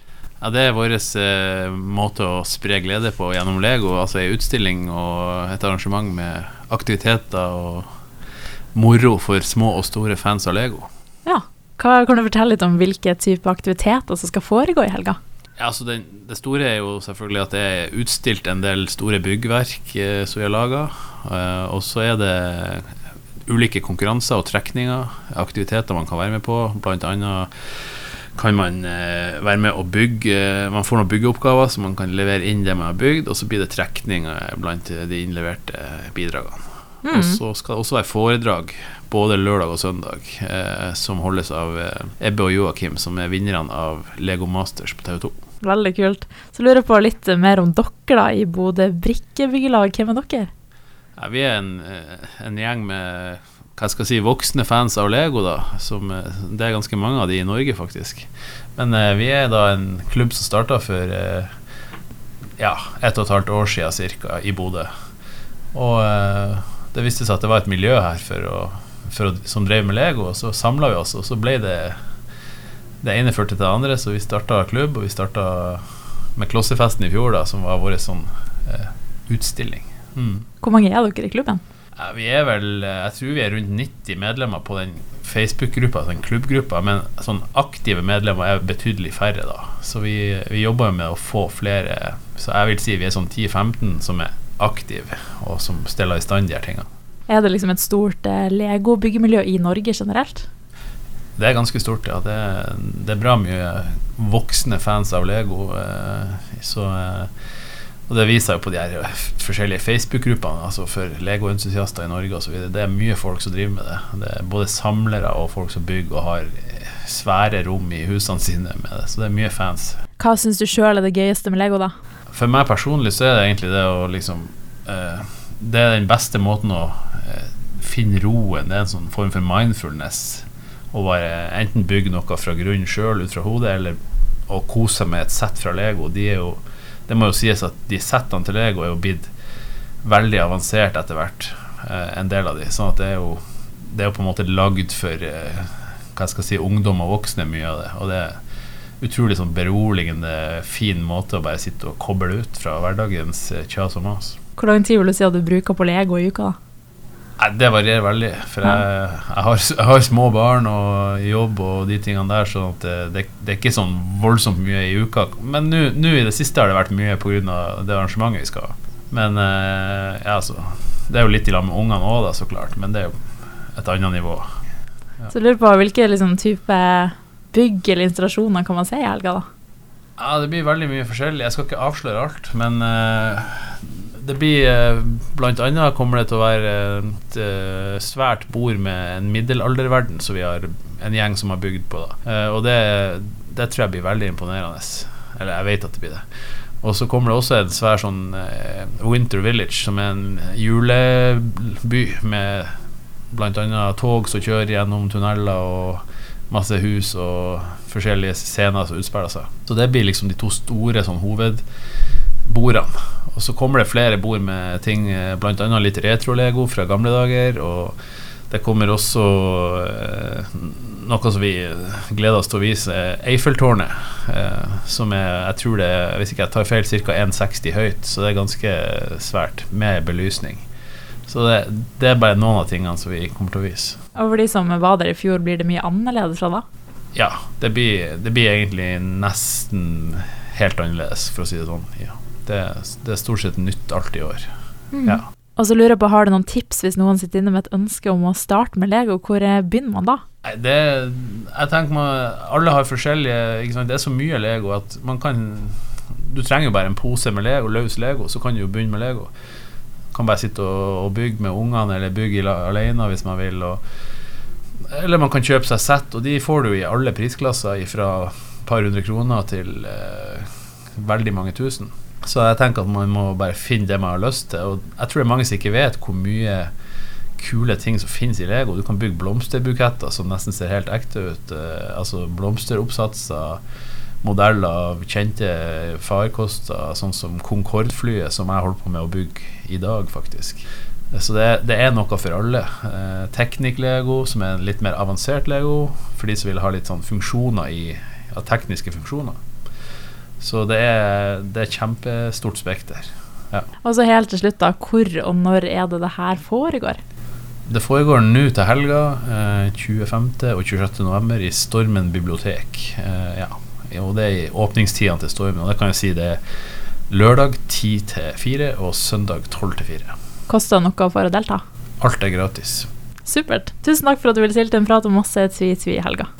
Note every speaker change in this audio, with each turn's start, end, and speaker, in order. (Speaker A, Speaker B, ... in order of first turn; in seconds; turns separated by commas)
Speaker A: 0.4-7.9, Speaker A: 8.7-10.9, Speaker B: 11.2-15.2, Speaker A: 15.6-22.9, Speaker A: 23.4-45.4, Speaker B: 37.0-37.4, Speaker B: 45.6-50.5, Speaker A: 51.2-61.5, Speaker A: 62.6-64.9, Speaker A: 65.7-72.0, Speaker A: 73.0-75.8, Speaker A: 76.3-80.5, Speaker B: 80.6-81.6, Speaker A: 82.0-96.9, Speaker B: 97.3-100.5, Speaker A: 101.4-107.3, Speaker A: 108.1-120.0, Speaker B: 120.2-121.9, Speaker A: 122.3-139.3, Speaker A: 140.0-148.3, Speaker A: 149.0-154.4, Speaker B: 154.6-156.6, Speaker A: 157.4-173.1, Speaker A: 173.7-174.5, Speaker B: 175.3-179.5, Speaker A: 180.2-196.2, Speaker A: 196.8-202.7, Speaker A: 203.3-211.6, Speaker A: 212.4-218.0, Speaker A: 218.5-230.7, Speaker A: 231.3-234.0, Speaker B: 234.2-236.6, Speaker A: 237.1-244.5, Speaker B: 244.9-250.2, Speaker A: 250.4-259.3, Speaker A: 260.1-263.8, Speaker A: 264.9-276.7, Speaker A: 277.4-283.6, Speaker A: 284.2-299.4, Speaker A: 300.4-303.7, Speaker B: 303.8-307.0, Speaker A: 307.7-316.4, Speaker A: 317.1-320.1, Speaker B: 320.5-321.6, Speaker A: 322.0-322.9, Speaker B: 323.2-326.3